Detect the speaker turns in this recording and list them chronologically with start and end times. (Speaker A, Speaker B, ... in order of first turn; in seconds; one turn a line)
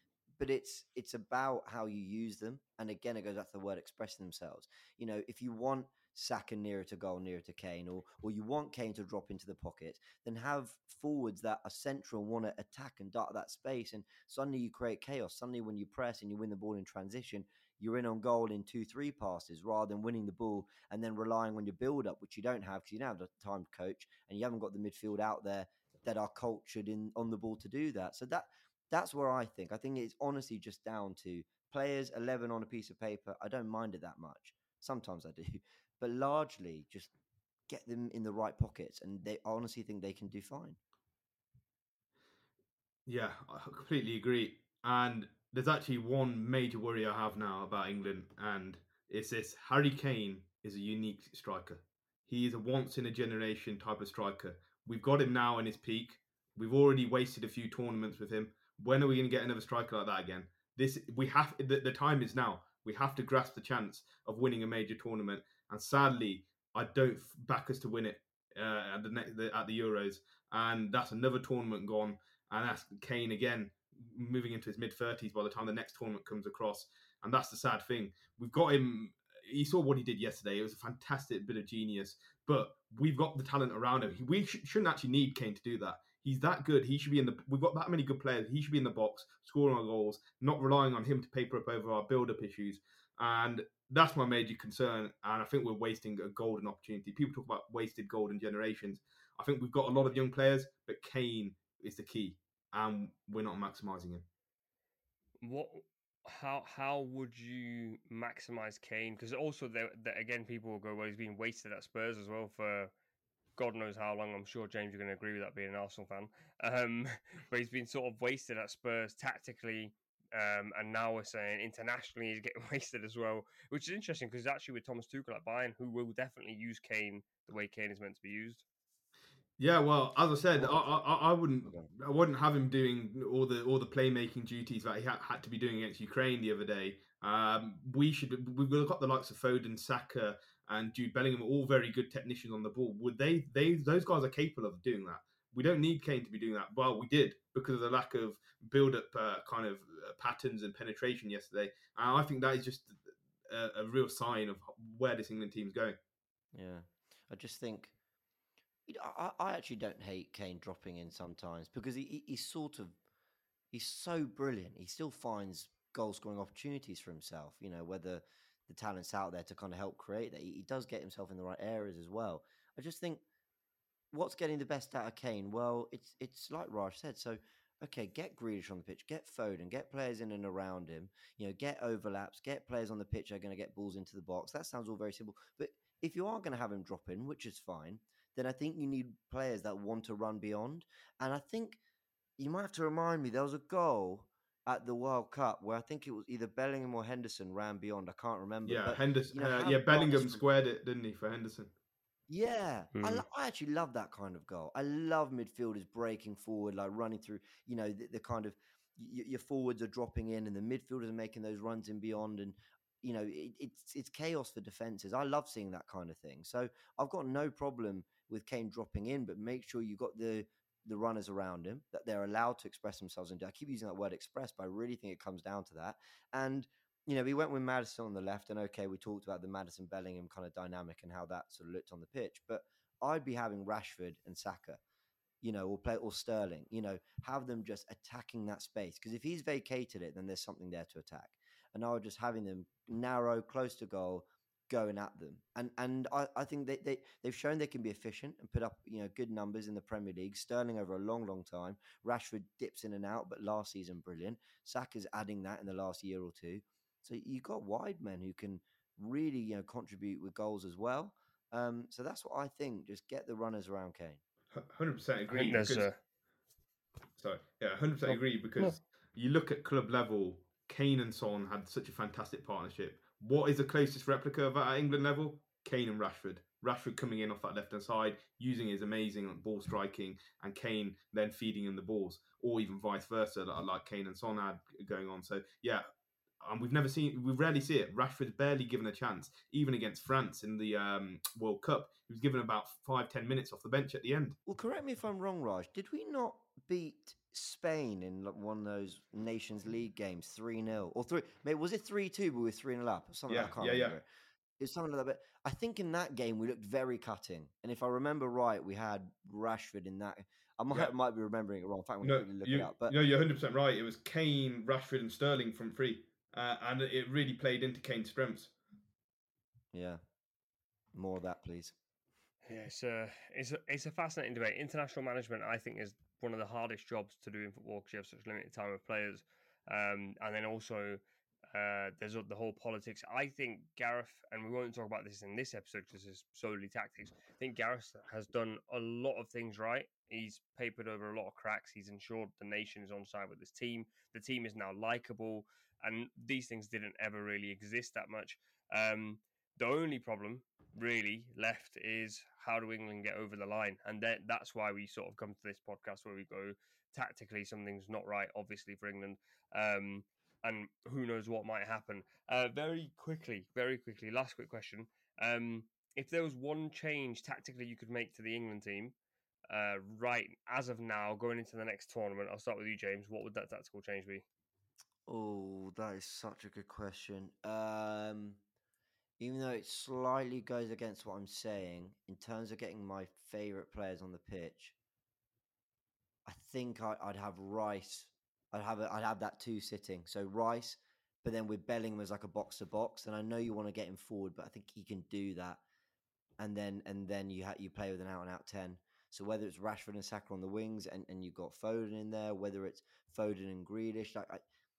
Speaker A: 0.4-37.1
Speaker A: 37.7-40.8
Speaker B: 43.1-104.2
Speaker C: 105.4-112.9
Speaker C: 113.6-128.7
Speaker B: 129.6-156.0
Speaker A: 130.5-131.0
Speaker A: 156.5-157.9
Speaker A: 158.9-163.0
Speaker A: 163.7-173.2
Speaker A: 174.1-191.8
Speaker A: 192.4-200.4
Speaker B: 198.7-201.7
Speaker A: 202.3-234.8
Speaker C: 202.9-203.2
Speaker A: 235.4-264.2
Speaker B: 264.5-265.9
Speaker C: 265.3-266.0
Speaker B: 267.2-285.8
Speaker C: 268.1-268.8
Speaker B: 286.4-294.4
Speaker A: 294.5-304.1
Speaker B: 303.3-304.0
Speaker A: 304.6-313.0
Speaker B: 312.0-318.5
Speaker A: 319.7-320.0
Speaker A: 320.9-321.8
Speaker C: 322.5-331.0
Speaker C: 331.5-368.9
Speaker C: 369.5-374.2
Speaker A: 375.1-378.4
Speaker A: 379.2-384.8
Speaker A: 386.3-395.6
Speaker A: 396.4-404.4